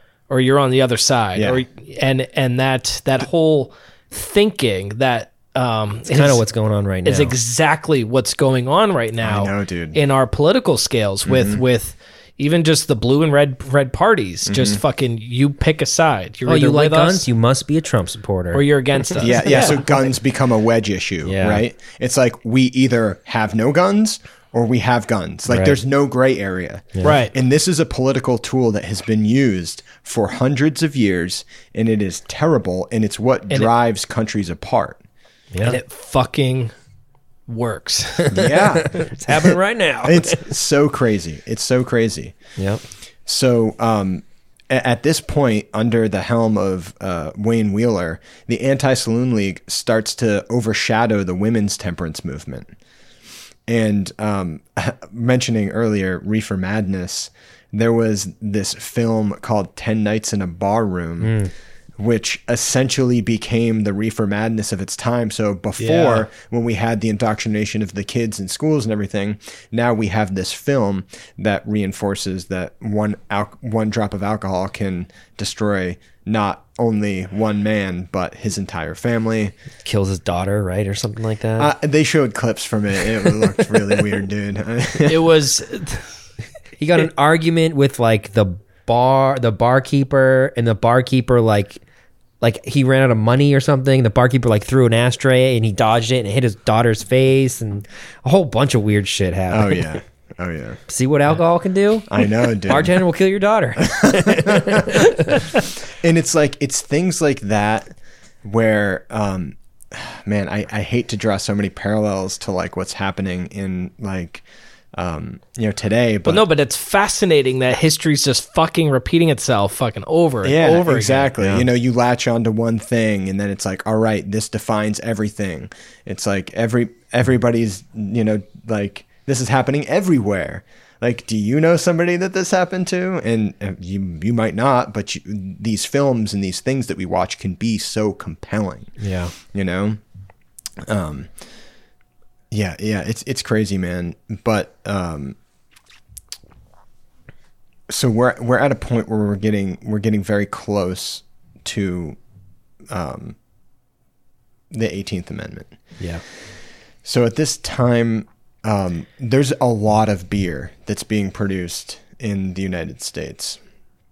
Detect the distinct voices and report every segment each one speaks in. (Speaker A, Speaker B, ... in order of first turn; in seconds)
Speaker A: 0.3-6.4, 7.0-17.3, 18.5-19.9, 27.0-27.3, 35.6-36.7, 37.5-38.6, 65.8-66.3, 85.1-86.1, 116.3-121.3
Speaker B: 1.4-1.6, 9.2-10.0, 11.3-11.6, 14.5-14.8, 19.2-35.0, 38.3-42.4, 43.3-52.7, 53.7-61.4, 62.0-79.5, 81.6-85.3, 99.5-100.8, 102.1-103.0, 103.8-107.9, 108.4-114.4, 115.0-116.5, 120.4-139.0, 139.5-140.0, 140.9-141.3, 142.5-145.4, 147.9-152.2, 152.9-153.4, 154.7-155.8, 157.0-163.6
Speaker C: 6.1-7.3, 16.5-19.6, 21.2-21.6, 25.5-25.8, 35.5-35.8, 38.3-40.5, 42.6-42.8, 61.2-61.5, 79.8-81.7, 86.8-91.8, 92.4-99.9, 100.9-105.6, 121.4-121.7, 139.0-139.3